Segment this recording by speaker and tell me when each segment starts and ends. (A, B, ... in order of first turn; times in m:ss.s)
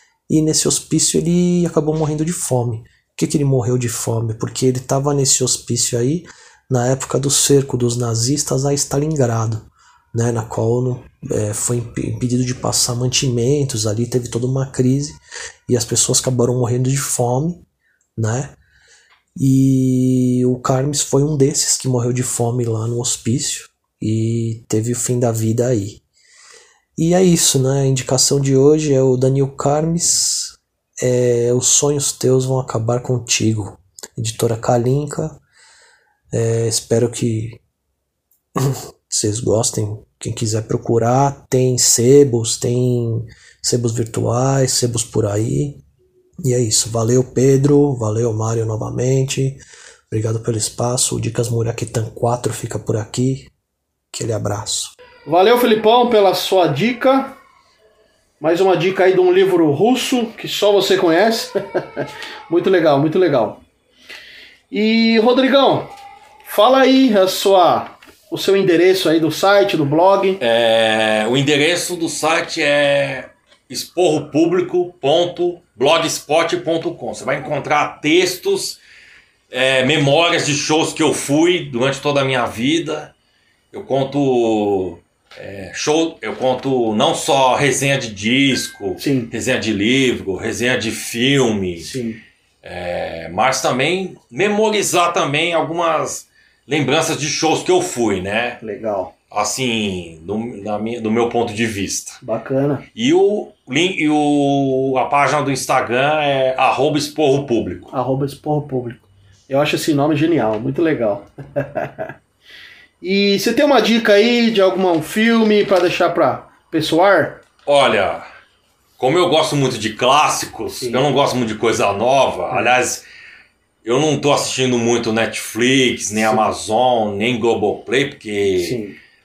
0:00.3-0:15.2 A
0:15.7-0:17.6 A
0:18.2-0:18.6 A
0:19.4-0:26.0 A
0:27.0-0:35.4 A
0:36.3-0:37.6 A
0:38.6-0:45.8 A
0:46.4-0:53.5 A
0:54.1-0:54.9 A
0:55.2-0:57.4 B
0:58.4-1:03.6 B
1:04.7-1:10.4 B
1:10.4-1:18.8 C
1:19.5-1:23.1 C
1:23.7-1:31.9 C
1:29.0-1:29.3 B
1:31.8-1:32.2 B
1:32.6-1:38.6 C
1:38.6-1:39.1 B
1:39.3-1:42.2 C
1:42.2-1:42.8 B
1:42.9-1:47.9 C
1:47.9-1:52.1 B
1:53.0-1:57.4 B
1:57.6-1:58.2 C
1:59.0-2:03.0 C
2:00.8-2:01.0 B
2:03.8-2:08.8 C
2:06.2-2:06.4 B
2:08.6-2:09.0 B